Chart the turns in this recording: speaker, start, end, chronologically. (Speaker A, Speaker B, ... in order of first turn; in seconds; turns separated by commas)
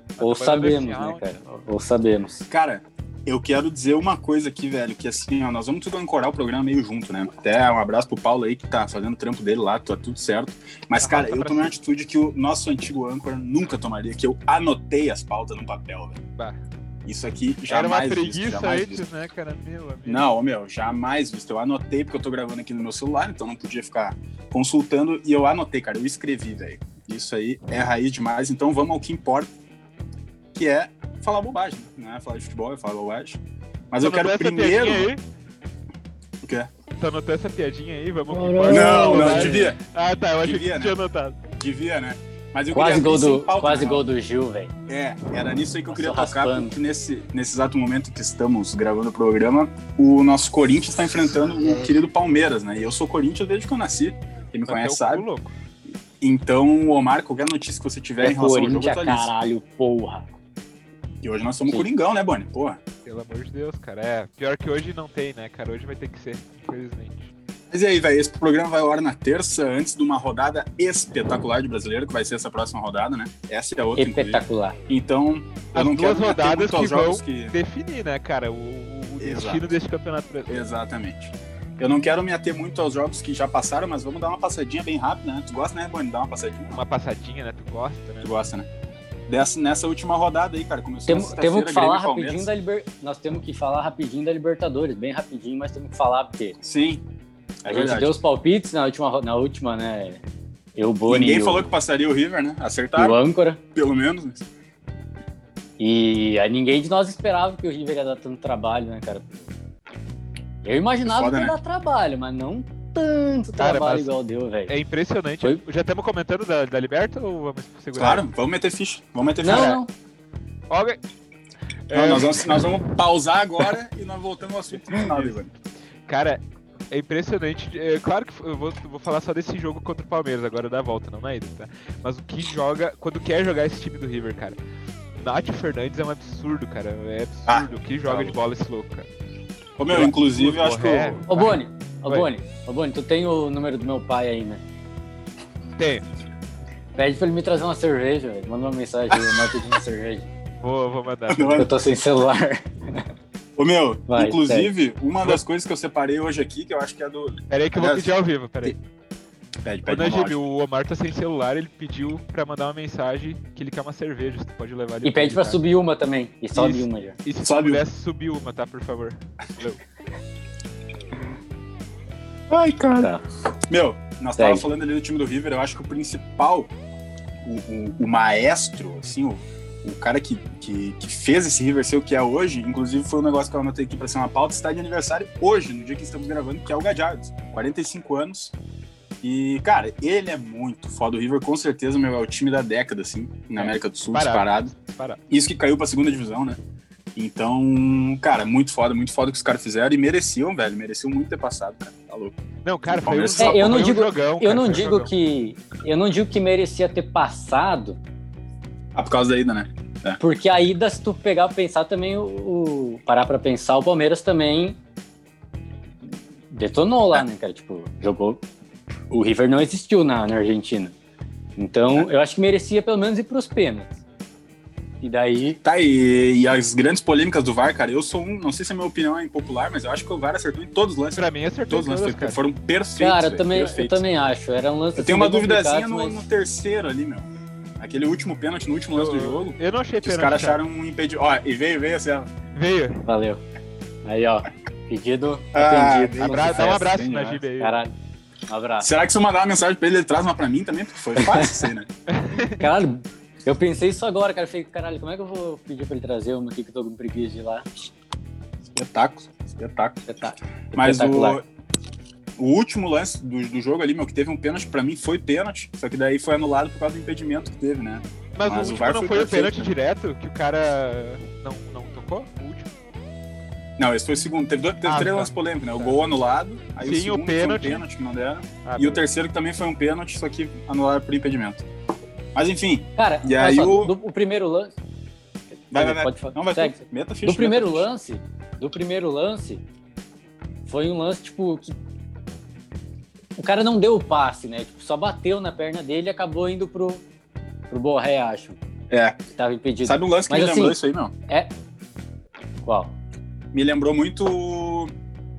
Speaker A: 0.2-1.3, Speaker B: 0.2-2.5, Speaker C: 2.5-16.2, Speaker A: 11.0-11.7, Speaker C: 17.1-19.0, Speaker A: 17.7-20.3, Speaker C: 20.1-29.5, Speaker C: 30.5-35.1, Speaker A: 34.0-35.2, Speaker C: 36.4-36.7, Speaker A: 37.0-41.4, Speaker B: 38.3-39.7, Speaker C: 38.7-39.8, Speaker C: 40.4-41.0, Speaker C: 41.6-44.0, Speaker B: 42.7-44.7, Speaker C: 44.9-55.3, Speaker B: 45.9-46.7, Speaker A: 54.7-55.5, Speaker C: 56.2-59.3, Speaker B: 58.2-60.4, Speaker C: 61.2-62.8, Speaker A: 63.0-67.3, Speaker C: 67.7-77.6, Speaker B: 74.0-74.8, Speaker A: 75.7-80.7, Speaker C: 79.2-79.8, Speaker C: 80.5-86.8, Speaker A: 86.7-88.3, Speaker C: 88.2-88.7, Speaker C: 89.3-92.5, Speaker B: 91.1-96.6, Speaker C: 96.6-97.0, Speaker C: 97.6-98.2, Speaker B: 97.7-100.2, Speaker B: 100.8-101.7, Speaker C: 101.1-103.2, Speaker B: 103.0-103.6, Speaker C: 103.8-104.5, Speaker B: 105.8-109.5, Speaker B: 110.6-114.7, Speaker C: 111.0-111.5, Speaker A: 113.6-114.1, Speaker A: 114.7-118.2, Speaker C: 118.0-119.8, Speaker B: 119.4-119.9, Speaker A: 119.5-119.8, Speaker A: 120.7-121.0, Speaker A: 121.9-122.8, Speaker C: 121.9-125.5, Speaker A: 124.9-125.4, Speaker A: 126.1-134.6, Speaker A: 135.2-139.1, Speaker C: 137.5-138.4, Speaker C: 139.8-141.2, Speaker A: 139.9-142.3, Speaker B: 141.3-144.6, Speaker A: 145.8-146.1, Speaker B: 147.0-150.3, Speaker C: 149.1-149.5, Speaker A: 150.6-151.7, Speaker C: 151.3-151.7, Speaker B: 151.5-153.0, Speaker C: 153.6-158.8, Speaker B: 154.1-154.7, Speaker A: 157.5-158.8, Speaker C: 159.6-160.4, Speaker A: 159.9-165.6, Speaker B: 165.0-167.2, Speaker A: 166.6-169.8, Speaker C: 167.4-167.8, Speaker C: 172.5-173.1, Speaker C: 173.7-176.7, Speaker B: 174.4-174.7, Speaker C: 177.4-188.6, Speaker C: 189.2-194.7, Speaker A: 193.6-195.2, Speaker C: 195.3-196.6, Speaker C: 197.2-202.4, Speaker A: 202.7-205.1, Speaker C: 202.9-203.9, Speaker B: 203.4-208.0, Speaker C: 208.9-210.2, Speaker B: 210.2-214.8, Speaker B: 216.5-218.4, Speaker B: 219.1-220.9, Speaker B: 221.6-224.0, Speaker B: 225.0-225.6, Speaker C: 225.6-234.0, Speaker A: 231.2-232.4, Speaker B: 233.0-236.3, Speaker C: 235.0-237.3, Speaker C: 237.8-242.3, Speaker A: 238.9-240.6, Speaker A: 242.5-243.1, Speaker B: 243.1-243.4, Speaker B: 244.1-246.9, Speaker C: 245.6-247.4, Speaker A: 246.2-247.8, Speaker B: 247.6-247.9, Speaker B: 248.5-248.9, Speaker C: 248.8-251.9, Speaker B: 251.2-251.6, Speaker A: 252.1-252.7, Speaker B: 252.6-257.7, Speaker C: 258.7-260.1, Speaker B: 260.1-261.4, Speaker C: 260.7-261.4, Speaker C: 262.4-269.7, Speaker A: 268.4-272.7, Speaker C: 273.8-281.6, Speaker A: 274.9-276.1, Speaker A: 276.8-277.8, Speaker A: 278.6-279.1, Speaker C: 282.4-283.9, Speaker B: 283.0-284.8, Speaker C: 285.7-287.9, Speaker B: 285.7-289.6, Speaker B: 290.7-291.8, Speaker B: 293.4-297.1, Speaker B: 297.7-298.6, Speaker C: 298.9-299.2, Speaker B: 299.4-301.5, Speaker C: 299.8-301.1, Speaker B: 302.6-302.9, Speaker C: 303.5-304.9